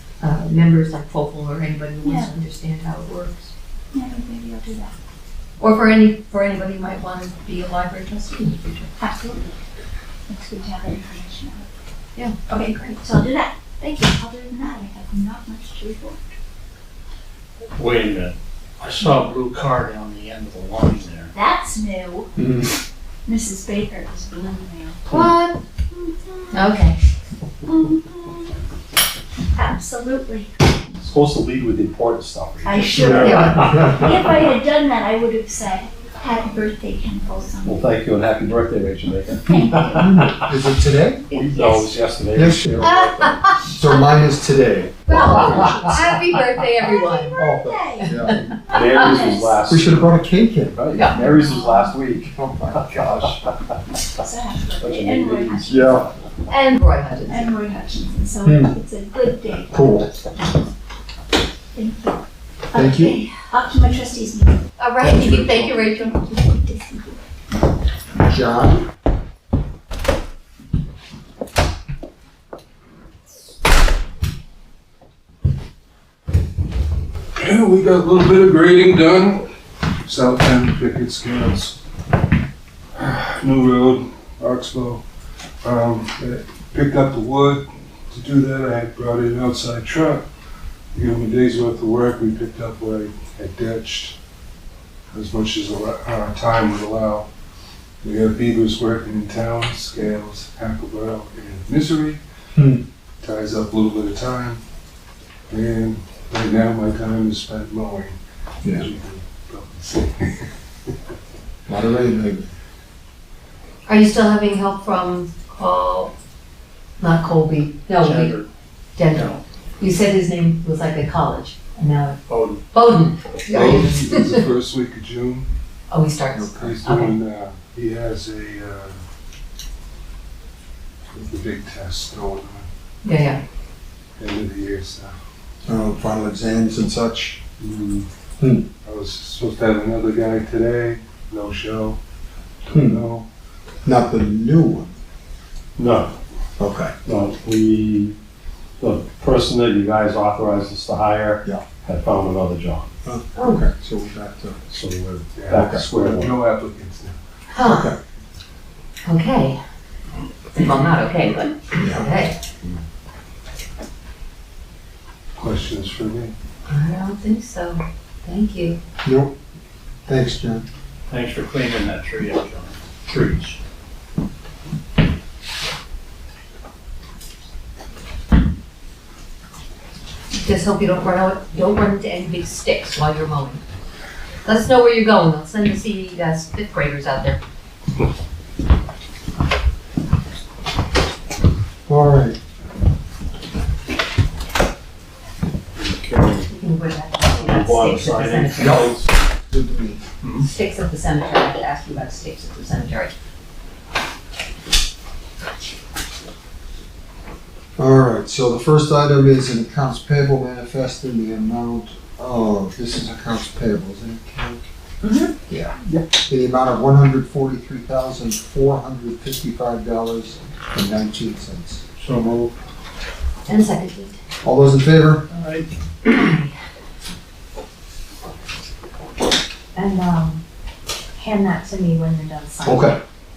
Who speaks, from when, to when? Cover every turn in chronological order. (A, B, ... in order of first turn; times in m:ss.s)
0:00.2-0:03.5 A
0:02.0-0:02.3 B
0:03.9-0:04.9 B
0:05.6-0:08.9 A
0:09.0-0:09.4 B
0:10.3-0:11.7 B
0:12.2-0:13.0 A
0:12.5-0:16.2 B
0:17.7-0:21.3 C
0:21.3-0:22.3 B
0:22.4-0:22.7 D
0:23.2-0:25.0 B
0:25.1-0:25.6 A
0:26.2-0:26.6 B
0:26.5-0:27.0 A
0:27.7-0:28.3 B
0:29.6-0:30.5 B
0:31.0-0:34.5 E
0:32.6-0:37.9 B
0:33.0-0:33.9 D
0:33.0-0:33.9 A
0:37.6-0:40.5 E
0:39.4-0:40.2 B
0:40.0-0:41.3 D
0:41.3-0:43.4 E
0:41.3-0:41.8 B
0:42.3-0:43.0 D
0:42.8-0:43.8 A
0:43.5-0:46.2 D
0:45.1-0:48.8 A
0:46.9-0:48.1 B
0:47.3-0:48.6 D
0:48.7-0:50.2 E
0:48.7-0:49.5 B
0:49.6-0:50.8 D
0:50.7-0:53.4 E
0:50.9-0:51.3 A
0:51.2-0:51.9 B
0:52.3-0:53.2 D
0:54.2-0:56.0 B
0:54.7-0:56.0 E
0:55.6-0:56.1 D
0:56.5-0:57.5 A
0:57.3-1:00.0 B
0:58.4-0:58.8 D
0:59.7-1:00.2 D
1:01.7-1:02.2 B
1:02.7-1:07.2 B
1:02.7-1:03.2 D
1:04.8-1:06.4 A
1:08.2-1:08.8 D
1:17.4-1:19.5 F
1:20.0-1:21.8 F
1:22.9-1:25.0 F
1:25.6-1:30.2 F
1:30.9-1:34.2 F
1:35.1-1:37.3 F
1:38.0-1:42.2 F
1:42.6-1:42.8 D
1:43.2-1:44.6 F
1:45.5-1:50.5 F
1:51.7-1:52.5 D
1:53.8-1:56.1 A
1:57.0-1:58.4 A
1:58.0-1:58.5 C
1:59.0-2:04.4 A
1:59.1-1:59.4 C
2:02.3-2:02.6 C
2:03.5-2:05.5 F
2:05.9-2:07.2 A
2:06.3-2:06.7 D
2:06.5-2:09.0 F
2:11.1-2:12.7 F
2:13.0-2:13.4 A
2:14.2-2:15.1 F
2:15.6-2:17.4 D
2:17.6-2:18.1 F
2:18.4-2:18.6 D
2:18.8-2:22.0 F
2:22.6-2:23.3 F
2:22.7-2:23.0 D
2:23.8-2:24.9 D
2:25.8-2:26.1 E
2:26.6-2:26.9 D
2:27.0-2:28.2 E
2:28.8-2:32.9 E
2:33.0-2:34.7 D
2:33.3-2:33.6 A
2:34.7-2:36.4 E
2:35.3-2:37.2 F
2:35.5-2:35.9 D
2:37.5-2:37.9 A
2:37.6-2:38.0 D
2:39.0-2:39.6 A
2:40.5-2:42.4 A
2:41.7-2:42.1 D
2:45.4-2:46.3 F
2:46.7-2:48.8 A
2:49.0-2:49.3 D
2:50.0-2:50.7 D
2:51.1-2:53.6 C
3:00.3-3:03.6 A
3:04.4-3:07.4 A
3:11.9-3:12.4 D
3:15.8-3:16.5 E
3:16.5-3:18.7 A
3:17.3-3:19.0 E
3:18.6-3:19.0 D
3:19.5-3:20.0 D
3:20.4-3:23.1 A
3:27.8-3:34.6 D
3:35.5-3:41.8 D
3:42.0-3:42.5 C
3:43.5-3:44.2 A
3:44.4-3:45.2 D
3:45.3-3:45.7 C
3:46.0-3:46.5 A
3:49.7-3:50.4 G
3:51.1-3:53.0 G
3:52.6-3:53.0 D